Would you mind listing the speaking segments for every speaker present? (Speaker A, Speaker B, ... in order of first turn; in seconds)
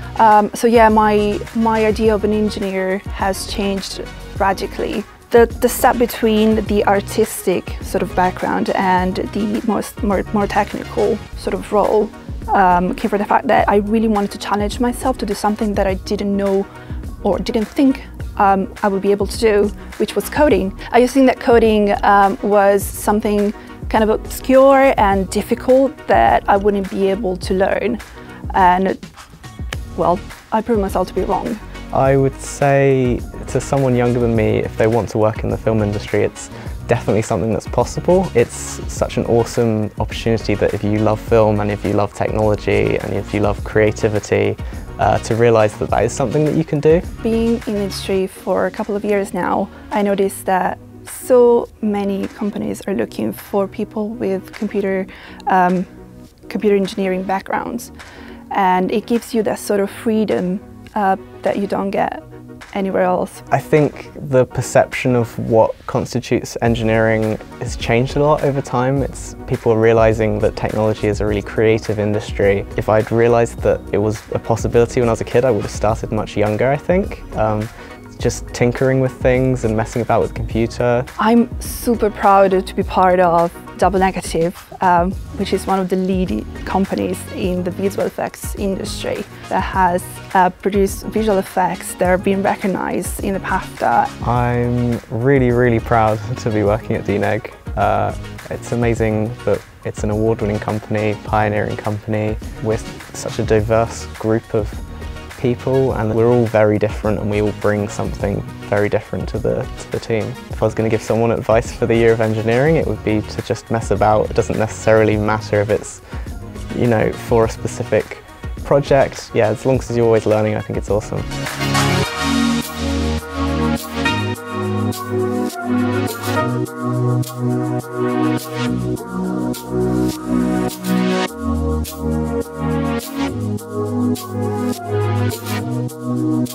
Speaker A: 0.1-16.7, 17.2-29.0, 29.9-31.6, 47.2-55.9, 56.5-57.9, 58.5-63.4, 81.2-94.1
Speaker B: 31.9-47.1, 63.5-81.1, 94.2-104.8, 105.3-116.0, 116.7-121.3